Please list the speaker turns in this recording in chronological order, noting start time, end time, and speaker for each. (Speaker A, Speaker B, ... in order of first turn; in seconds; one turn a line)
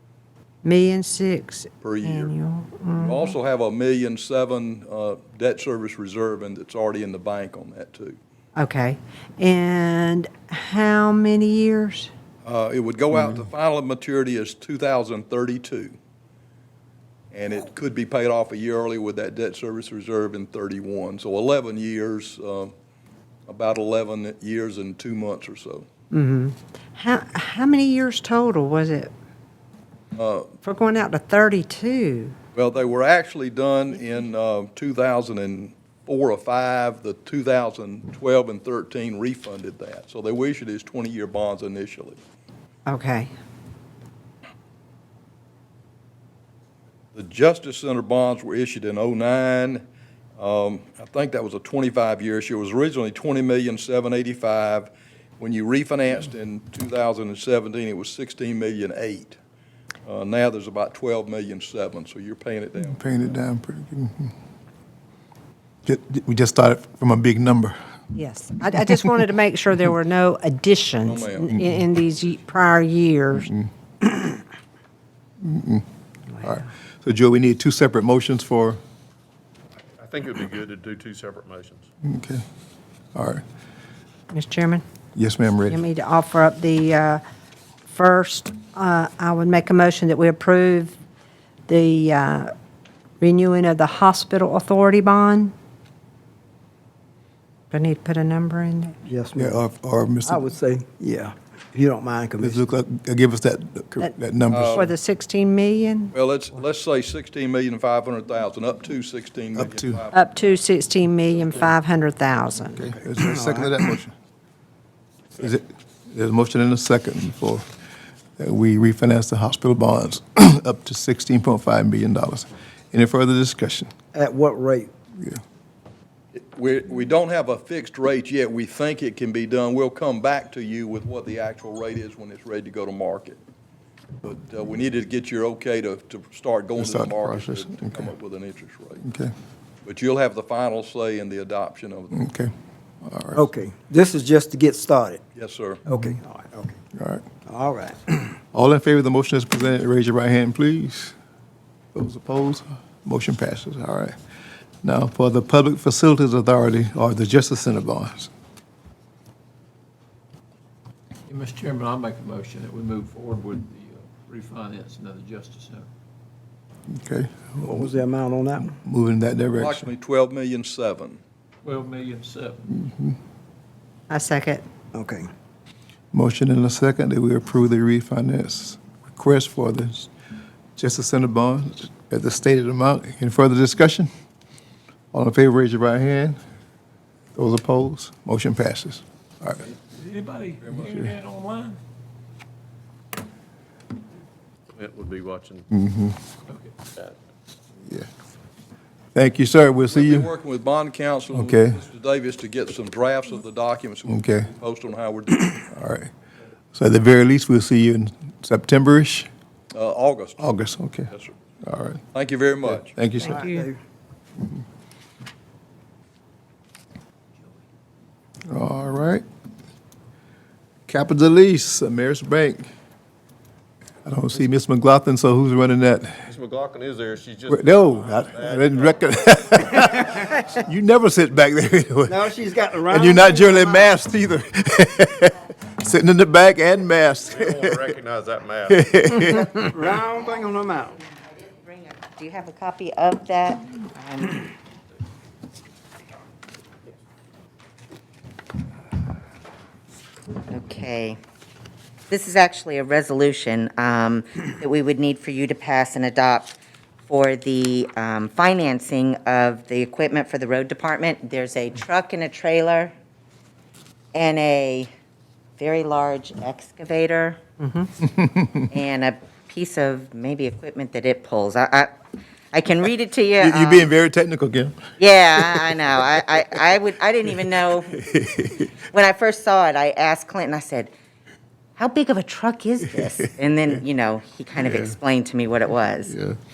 Speaker A: 0.6-3.3
Speaker B: 1.8-2.3
Speaker B: 2.9-8.2
Speaker A: 8.6-12.1
Speaker B: 12.4-15.9
Speaker B: 17.3-22.7
Speaker B: 23.5-25.9
Speaker A: 26.1-29.1
Speaker B: 30.1-30.5
Speaker A: 30.6-32.3
Speaker B: 32.5-42.2
Speaker A: 42.9-43.3
Speaker B: 47.1-49.8
Speaker B: 50.4-59.4
Speaker B: 60.0-63.4
Speaker C: 62.8-64.3
Speaker C: 65.8-67.8
Speaker A: 68.1-73.5
Speaker B: 71.0-71.6
Speaker C: 75.4-75.8
Speaker A: 76.3-76.6
Speaker C: 76.4-78.8
Speaker D: 79.9-81.9
Speaker C: 82.0-82.4
Speaker C: 83.1-83.4
Speaker A: 84.3-84.8
Speaker C: 85.2-85.8
Speaker A: 85.7-87.2
Speaker A: 87.9-91.0
Speaker A: 91.7-92.5
Speaker A: 93.2-95.5
Speaker A: 97.7-99.0
Speaker E: 99.0-99.6
Speaker C: 99.4-100.5
Speaker E: 100.2-102.6
Speaker C: 102.4-104.9
Speaker B: 104.5-104.9
Speaker A: 104.7-106.1
Speaker B: 106.1-110.5
Speaker C: 109.5-110.0
Speaker A: 110.1-112.9
Speaker C: 112.7-114.1
Speaker E: 113.2-113.7
Speaker C: 115.4-117.7
Speaker C: 118.4-123.9
Speaker E: 124.1-124.9
Speaker B: 126.3-133.4
Speaker B: 134.2-139.0
Speaker C: 136.8-138.1
Speaker C: 139.0-139.3
Speaker B: 139.8-142.2
Speaker C: 142.1-142.5
Speaker C: 143.0-143.5
Speaker E: 143.3-145.2
Speaker B: 145.3-145.8
Speaker E: 145.8-146.8
Speaker C: 145.9-146.1
Speaker C: 146.9-147.2
Speaker E: 147.4-148.3
Speaker C: 148.5-151.1
Speaker C: 151.9-154.1
Speaker C: 154.8-158.3
Speaker F: 161.3-165.9
Speaker C: 166.9-167.9
Speaker E: 167.6-168.7
Speaker C: 168.7-169.9
Speaker B: 169.6-171.2
Speaker F: 171.6-172.8
Speaker C: 172.8-173.2
Speaker A: 174.1-174.6
Speaker E: 174.9-175.3
Speaker C: 176.1-180.1
Speaker C: 180.8-184.1
Speaker C: 185.1-186.4
Speaker C: 187.3-189.7
Speaker F: 189.8-191.8
Speaker D: 194.7-195.7
Speaker C: 195.7-196.2
Speaker F: 196.5-196.8
Speaker C: 199.1-200.3
Speaker B: 199.8-205.7
Speaker C: 201.3-201.8
Speaker C: 204.1-204.5
Speaker C: 205.7-206.1
Speaker C: 206.7-209.3
Speaker B: 209.7-210.5
Speaker C: 210.4-211.1
Speaker B: 211.1-211.3
Speaker C: 211.6-212.0
Speaker B: 212.1-212.9
Speaker C: 212.8-213.5
Speaker A: 213.2-213.7
Speaker E: 213.2-213.8
Speaker F: 217.4-217.6
Speaker C: 218.5-219.2
Speaker C: 220.9-222.7
Speaker C: 224.0-226.2
Speaker D: 226.3-229.0
Speaker C: 227.5-232.3
Speaker E: 232.1-233.7
Speaker C: 232.9-237.9
Speaker D: 237.3-239.1
Speaker C: 238.7-239.7
Speaker E: 239.2-241.0
Speaker G: 241.1-244.4
Speaker G: 250.5-251.2
Speaker G: 252.1-256.5
Speaker G: 257.1-262.9
Speaker G: 264.1-264.9
Speaker G: 265.6-267.4
Speaker A: 267.6-267.9
Speaker C: 268.2-268.4
Speaker G: 268.7-271.9
Speaker G: 272.5-273.9
Speaker C: 273.4-274.8
Speaker G: 275.0-278.0
Speaker C: 275.4-275.8
Speaker C: 278.0-278.6
Speaker G: 278.9-280.9
Speaker G: 281.8-286.1
Speaker C: 284.6-284.9